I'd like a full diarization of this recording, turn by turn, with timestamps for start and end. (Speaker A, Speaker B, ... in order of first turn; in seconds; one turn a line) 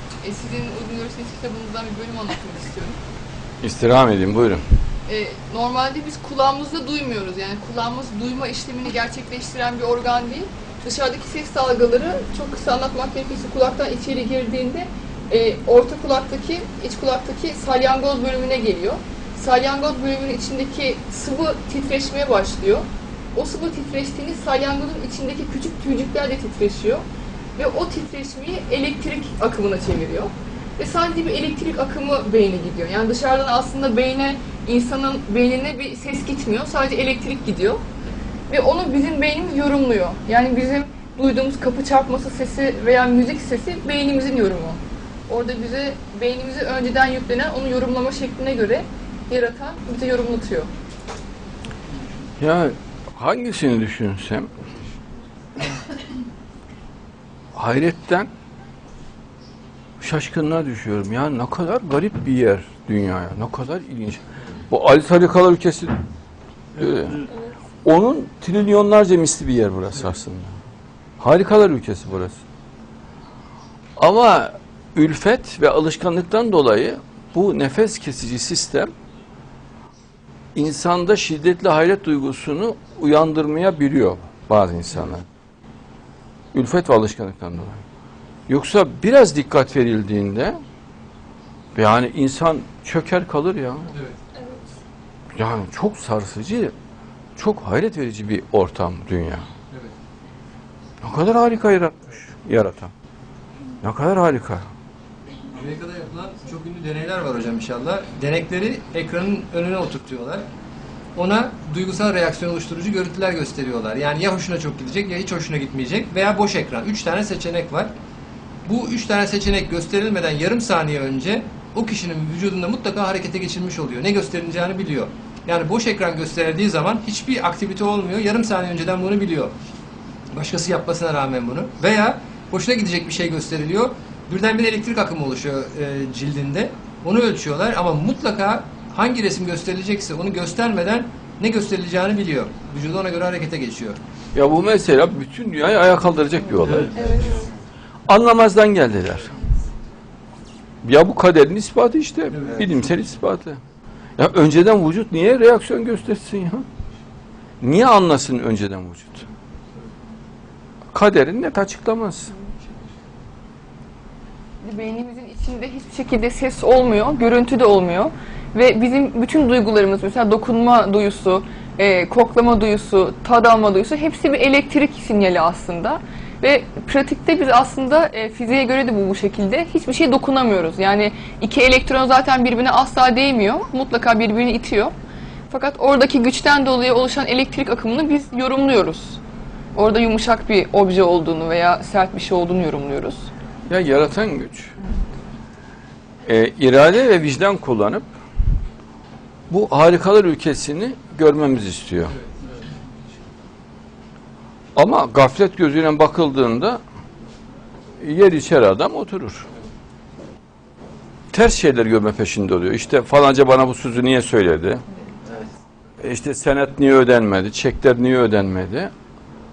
Speaker A: 0.2-3.0
Speaker B: 3.6-4.6
Speaker A: 5.0-27.0
Speaker A: 27.6-37.8
Speaker A: 38.5-50.7
Speaker B: 52.4-54.5
Speaker B: 57.5-58.3
Speaker B: 60.0-66.0
Speaker B: 66.7-67.3
Speaker B: 67.8-70.5
Speaker B: 71.2-72.4
Speaker B: 74.0-78.9
Speaker B: 80.5-85.2
Speaker B: 86.5-87.8
Speaker B: 88.5-90.6
Speaker B: 91.7-93.9
Speaker B: 95.3-96.7
Speaker B: 97.4-99.5
Speaker B: 101.0-102.9
Speaker B: 103.8-104.7
Speaker C: 105.5-110.5
Speaker C: 111.1-117.9
Speaker C: 118.7-129.5
Speaker C: 130.3-144.0
Speaker B: 144.3-146.9
Speaker C: 146.7-146.9
Speaker A: 146.9-147.5
Speaker B: 148.1-149.3
Speaker B: 150.8-153.6
Speaker C: 152.3-152.7
Speaker B: 154.2-156.6
Speaker B: 157.6-159.2
Speaker B: 160.9-162.3
Speaker A: 164.6-184.9
Speaker A: 185.5-189.2
Speaker A: 189.7-193.3
Speaker B: 193.7-194.7
Speaker B: 196.2-198.1
Speaker B: 199.5-202.1
Speaker B: 204.7-206.8
Speaker B: 208.0-209.5
Speaker B: 211.3-214.8
Speaker B: 216.0-218.9